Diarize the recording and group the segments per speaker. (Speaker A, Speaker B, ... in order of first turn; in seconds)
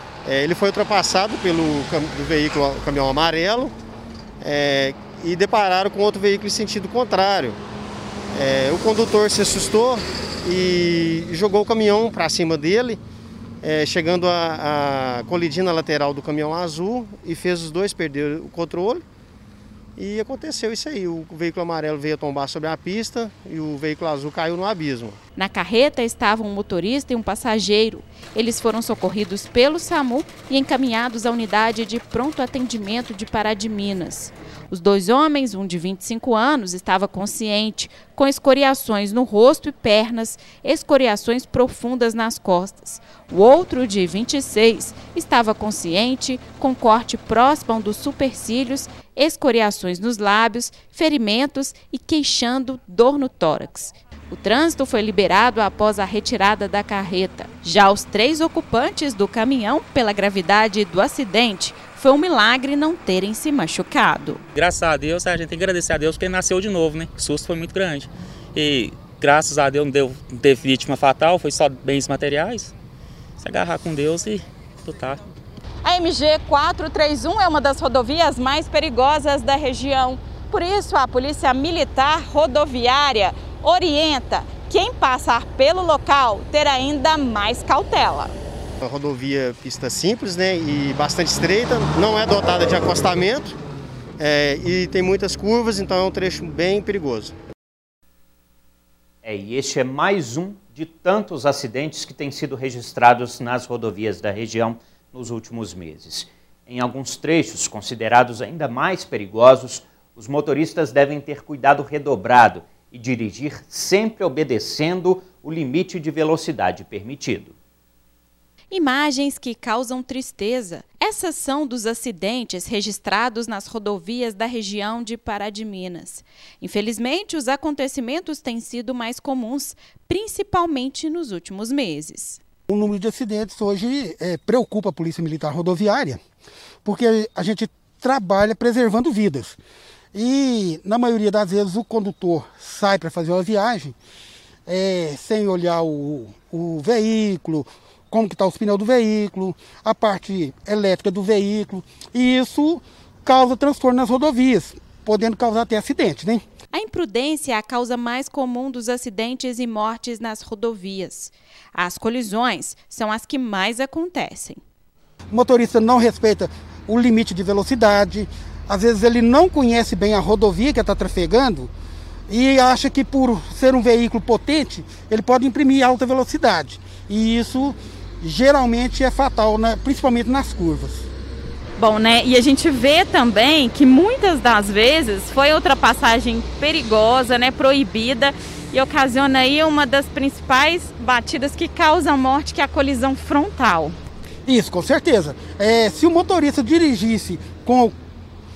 Speaker A: 0.2-3.7, 4.4-7.6, 8.3-13.0, 13.6-19.0, 20.0-25.2, 88.8-93.5, 94.2-97.3
Speaker B: 25.4-64.4, 75.8-88.3, 118.7-132.4, 156.7-164.6, 181.8-193.9
Speaker C: 64.5-72.7, 73.4-75.2
Speaker D: 99.2-117.5
Speaker E: 132.7-136.2, 136.8-139.6, 140.1-143.9, 144.7-156.4, 165.3-171.7, 172.3-181.1, 194.4-197.9